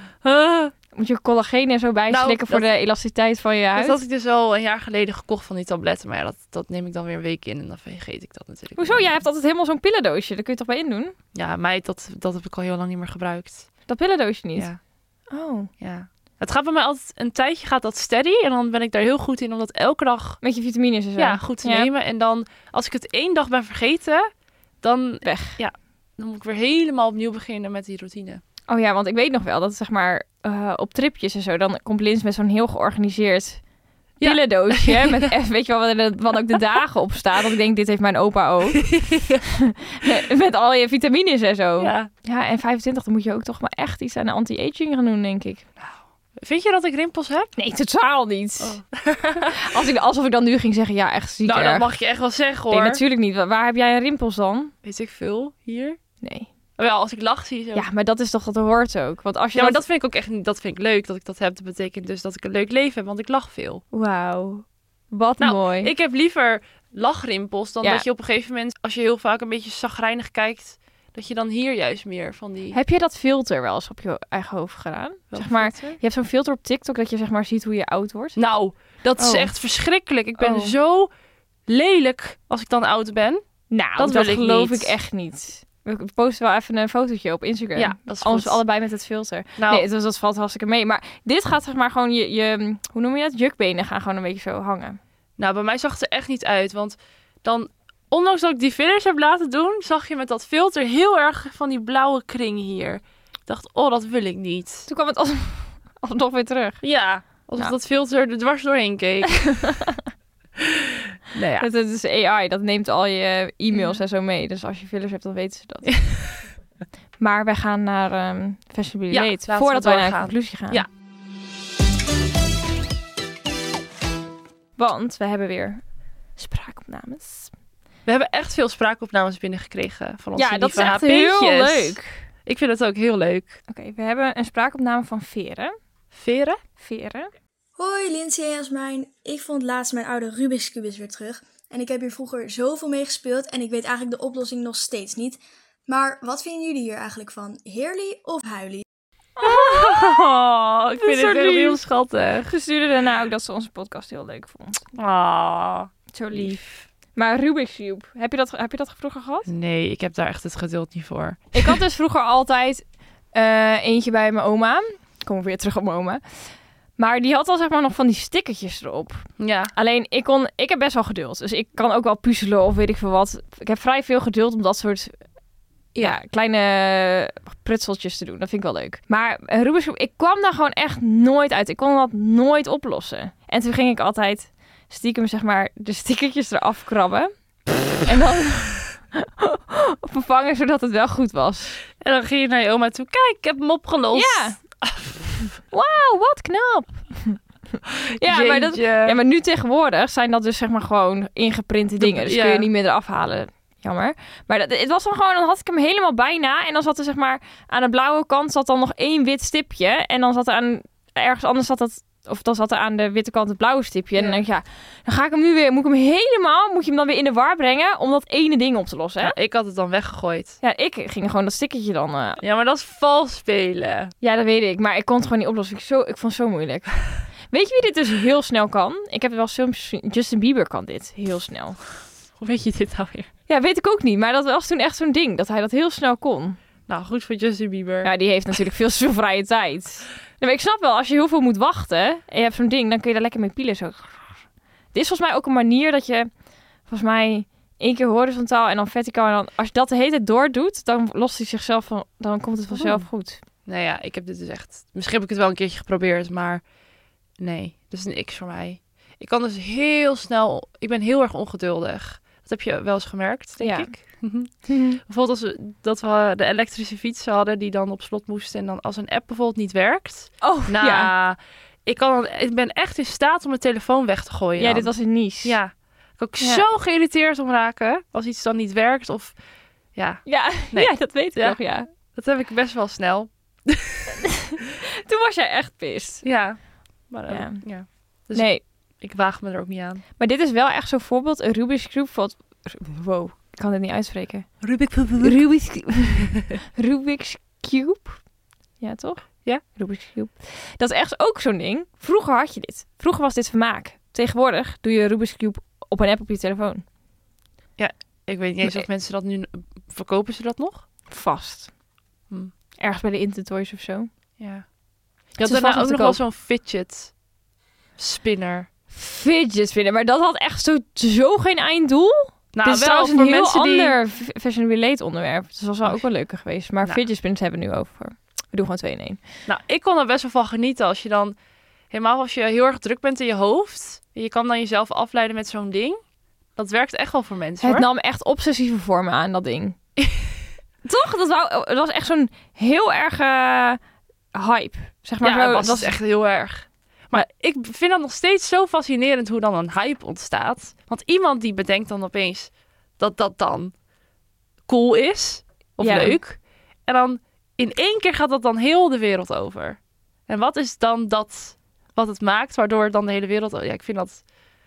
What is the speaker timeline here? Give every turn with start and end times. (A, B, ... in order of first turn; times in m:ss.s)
0:00.2-0:00.7 A
0:00.9-0:04.0 B
0:02.1-0:02.7 A
0:03.8-0:09.2 A
0:08.8-0:11.1 B
0:11.3-0:13.7 A
0:13.9-0:14.7 B
0:15.3-0:15.7 B
0:15.8-0:20.4 A
0:20.4-0:21.9 B
0:21.2-0:24.3 A
0:24.8-0:28.4 A
0:25.2-0:25.6 B
0:28.7-0:33.6 B
0:34.2-0:35.3 A
0:34.2-0:45.7 B
0:38.7-0:39.4 A
0:41.8-0:42.1 A
0:45.8-0:47.6 A
0:47.6-0:48.8 B
0:48.6-0:49.7 A
0:49.4-0:51.9 B
0:51.4-0:53.0 A
0:52.7-0:54.7 B
0:54.8-0:56.0 A
0:56.2-0:56.5 B
0:56.8-0:57.8 A
0:57.7-0:59.8 B
0:59.5-1:03.8 A
1:03.9-1:05.9 B
1:05.4-1:12.8 A
1:12.7-1:18.4 B
1:15.3-1:16.0 A
1:18.4-1:21.1 A
1:19.2-1:19.5 B
1:20.4-1:20.7 B
1:21.7-1:23.4 A
1:23.7-1:35.0 B
1:24.0-1:25.0 A
1:27.8-1:28.6 A
1:29.6-1:29.8 A
1:35.4-1:44.9 A
1:44.9-1:46.8 B
1:46.8-1:49.5 A
1:49.4-1:50.0 B
1:50.7-1:51.7 A
1:51.6-1:56.0 B
1:55.9-1:56.2 A
1:57.2-2:00.8 B
1:59.1-2:00.9 A
2:04.8-2:05.8 B
2:06.4-2:07.5 B
2:08.0-2:13.6 A
2:10.4-2:12.2 B
2:13.7-2:15.7 B
2:16.1-2:16.6 A
2:16.8-2:17.3 B
2:17.8-2:28.8 C
2:29.4-2:30.3 B
2:29.4-2:32.5 A
2:31.0-2:31.8 B
2:32.5-2:34.8 B
2:35.0-2:36.8 A
2:36.1-2:36.6 B
2:37.1-2:39.5 B
2:39.4-2:41.8 A
2:41.5-2:46.4 B
2:47.0-2:55.1 B
2:49.4-2:49.7 A
2:56.0-3:07.3 B
3:08.0-3:11.8 B
3:12.0-3:15.4 A
3:14.1-3:14.6 B
3:15.7-3:39.4 B
3:18.1-3:19.2 A
3:22.0-3:22.7 A
3:34.2-3:34.4 A
3:39.2-3:40.6 A
3:40.6-3:42.4 B
3:42.4-3:44.1 A
3:44.2-3:51.8 B
3:52.4-3:53.3 A
3:53.5-3:56.6 B
3:56.9-3:58.1 A
3:58.0-4:04.4 B
4:04.9-4:06.3 B
4:06.9-4:13.4 B
4:12.7-4:13.0 A
4:13.6-4:16.6 A
4:17.4-4:39.4 A
4:23.6-4:23.9 B
4:24.7-4:25.0 B
4:30.4-4:31.1 B
4:34.6-4:35.6 B
4:40.0-4:41.6 A
4:40.2-4:41.9 B
4:42.1-4:44.1 A
4:44.2-4:46.2 B
4:46.2-4:50.0 A
4:47.3-4:47.7 B
4:48.3-4:48.6 B
4:50.2-4:58.2 B
4:54.6-4:55.4 A
4:58.8-5:06.8 B
5:07.8-5:10.8 A
5:11.1-5:11.7 B
5:12.8-5:14.1 B
5:14.4-5:14.6 A
5:15.3-5:17.1 A
5:15.4-5:16.2 B
5:18.0-5:18.7 A
5:18.9-5:29.2 B
5:22.5-5:23.9 A
5:29.5-5:31.3 A
5:31.9-5:36.0 A
5:36.6-5:37.9 A
5:37.6-5:39.8 B
5:40.8-5:43.8 B
5:44.3-5:46.0 B
5:45.2-5:53.7 A
5:54.7-6:04.3 A
5:55.8-5:56.2 B